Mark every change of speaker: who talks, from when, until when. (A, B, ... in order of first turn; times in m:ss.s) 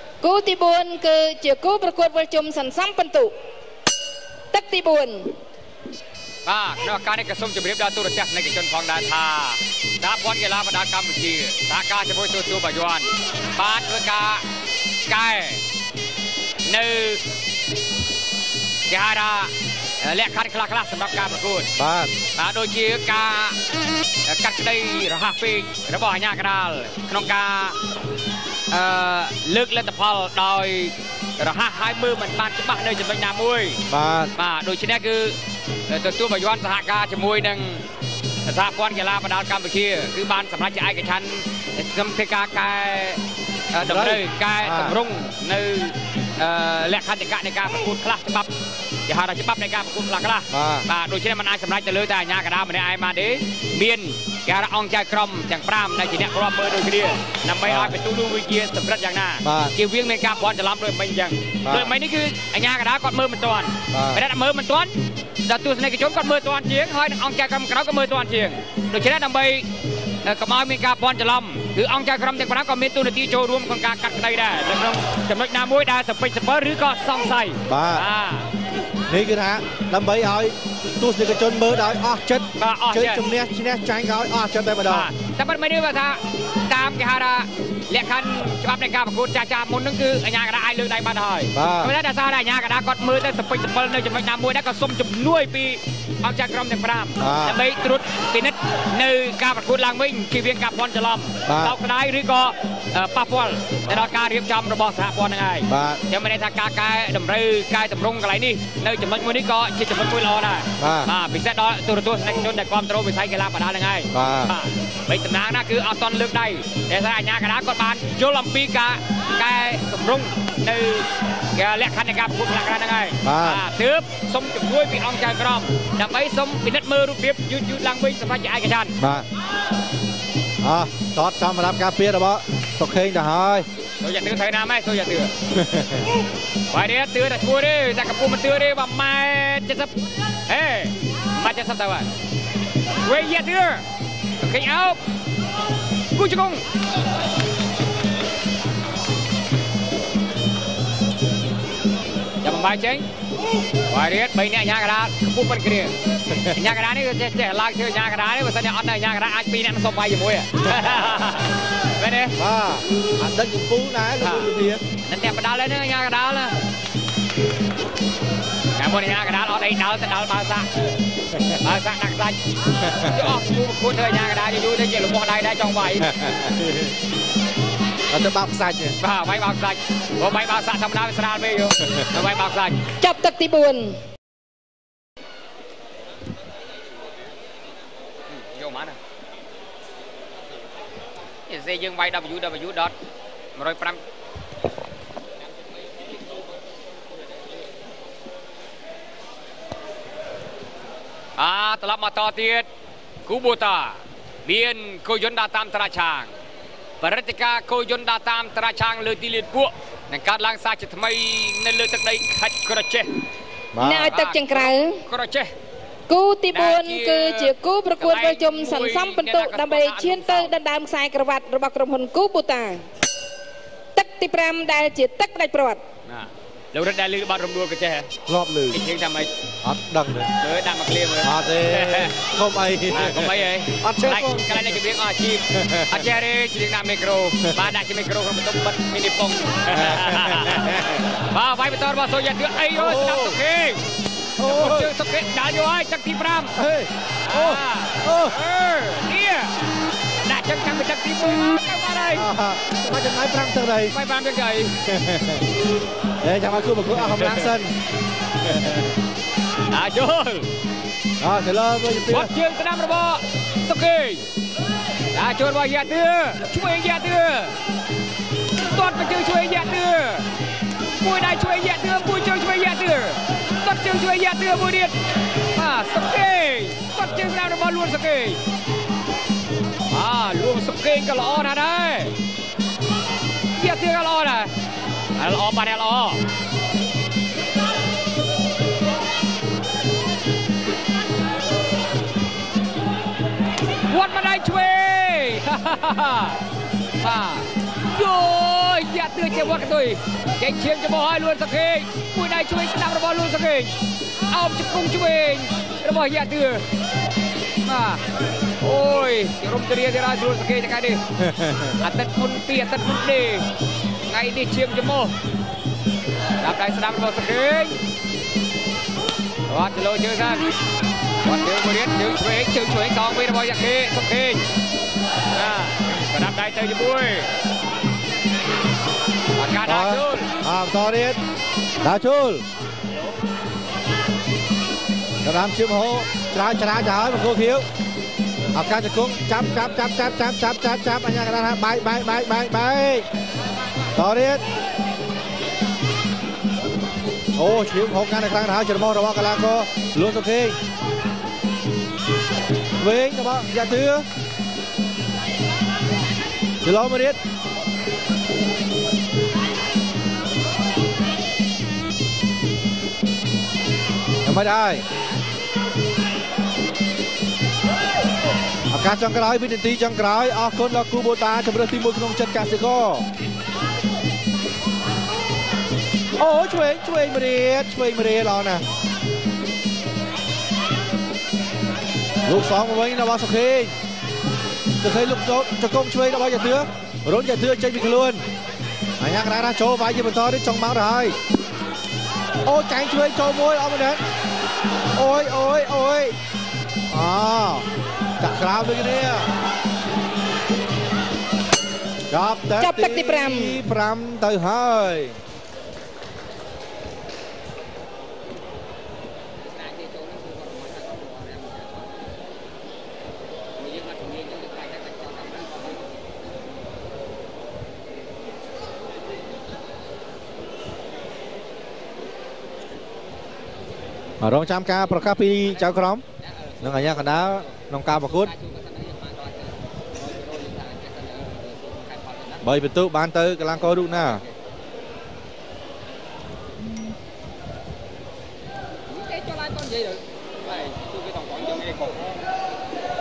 0:00.2-0:03.3 A
0:04.5-0:05.3 A
0:06.4-0:14.4 B
0:15.1-0:15.6 B
0:16.7-0:17.2 B
0:18.9-0:21.7 B
0:21.8-0:22.2 C
0:22.4-0:23.6 B
0:24.2-0:27.8 B
0:28.7-0:33.8 B
0:33.9-0:34.3 C
0:34.4-0:35.4 B
0:35.9-0:37.8 B
0:38.4-0:48.5 B
0:43.8-0:45.0 C
0:49.1-1:09.7 B
0:50.5-0:50.9 C
0:57.6-0:58.0 C
0:59.4-0:59.8 C
1:01.6-1:01.9 C
1:03.9-1:04.2 C
1:10.2-1:18.5 B
1:17.7-1:18.0 C
1:19.1-1:25.1 C
1:22.6-1:23.2 B
1:24.9-2:09.0 B
1:31.5-1:31.9 C
1:37.2-1:37.6 C
1:41.4-1:41.8 C
1:45.7-1:46.0 C
1:50.8-1:51.1 C
1:54.1-1:54.5 C
2:03.2-2:03.6 C
2:09.0-2:09.3 C
2:10.6-2:13.7 C
2:14.0-2:15.4 B
2:15.6-2:16.1 C
2:16.7-2:19.9 B
2:20.5-2:22.1 B
2:23.0-2:23.8 B
2:24.4-2:25.0 B
2:26.1-2:26.6 B
2:32.4-2:33.1 B
2:33.9-2:42.4 B
2:42.4-2:44.8 C
2:44.2-2:44.5 B
2:45.0-2:46.6 B
2:48.8-2:50.7 B
2:51.4-2:56.6 B
2:58.1-2:59.0 C
2:59.0-3:02.8 B
3:03.0-3:04.0 A
3:08.3-3:09.0 B
3:11.5-3:12.9 B
3:13.6-3:14.0 B
3:21.4-3:22.7 B
3:23.3-3:26.3 B
3:27.0-3:33.2 B
3:33.7-3:34.1 C
3:33.8-3:35.0 A
3:34.0-3:35.5 B
3:36.1-3:42.8 A
3:36.5-3:40.6 B
3:44.0-3:45.8 A
3:46.1-3:48.1 B
3:48.3-3:48.8 C
3:48.7-3:49.3 B
3:49.6-3:50.3 C
3:50.4-3:52.2 B
3:51.2-3:54.8 C
3:52.9-4:03.8 B
3:55.6-3:55.9 C
3:59.7-4:00.8 C
4:02.8-4:03.4 C
4:04.4-4:04.9 C
4:04.4-4:06.6 B
4:06.6-4:08.4 C
4:07.2-4:09.6 B
4:10.2-4:12.3 B
4:12.1-4:14.0 C
4:13.9-4:14.7 B
4:14.9-4:15.4 C
4:16.2-4:17.7 C
4:17.2-4:17.5 B
4:19.7-4:20.5 B
4:21.2-4:22.3 C
4:22.1-4:24.2 B
4:25.1-4:27.6 B
4:28.6-4:30.3 B
4:31.0-4:38.4 B
4:39.9-4:42.2 B
4:43.6-4:44.5 B
4:45.2-4:46.2 B
4:53.9-4:56.4 B
4:57.0-5:03.8 B
5:04.3-5:06.7 B
5:07.6-5:08.0 B
5:08.6-5:13.5 B
5:14.1-5:15.2 B
5:16.4-5:17.8 B
5:19.5-5:20.5 B
5:21.2-5:24.5 B
5:25.3-5:27.3 B
5:29.4-5:30.3 B
5:29.7-5:31.2 C
5:31.8-5:32.4 C
5:35.2-5:37.6 C
5:38.5-5:43.1 C
5:44.0-5:44.4 C
5:47.4-5:50.6 C
5:52.8-5:54.1 C
5:56.6-5:57.2 C
6:04.2-6:04.8 C
6:08.7-6:13.1 C
6:16.2-6:18.6 C
6:22.3-6:23.8 C
6:24.8-6:28.3 C
6:29.0-6:31.2 C
6:32.4-6:34.0 C
6:35.0-6:36.2 C
6:36.9-6:37.7 C
6:38.2-6:39.3 C
6:42.1-6:45.2 C
6:42.6-6:43.6 A
6:49.4-6:52.0 B
6:53.6-6:56.1 B
7:04.2-7:06.0 C
7:05.0-7:12.5 B
7:06.6-7:08.3 C
7:12.4-7:14.2 C
7:13.6-7:14.4 B
7:18.9-7:22.2 B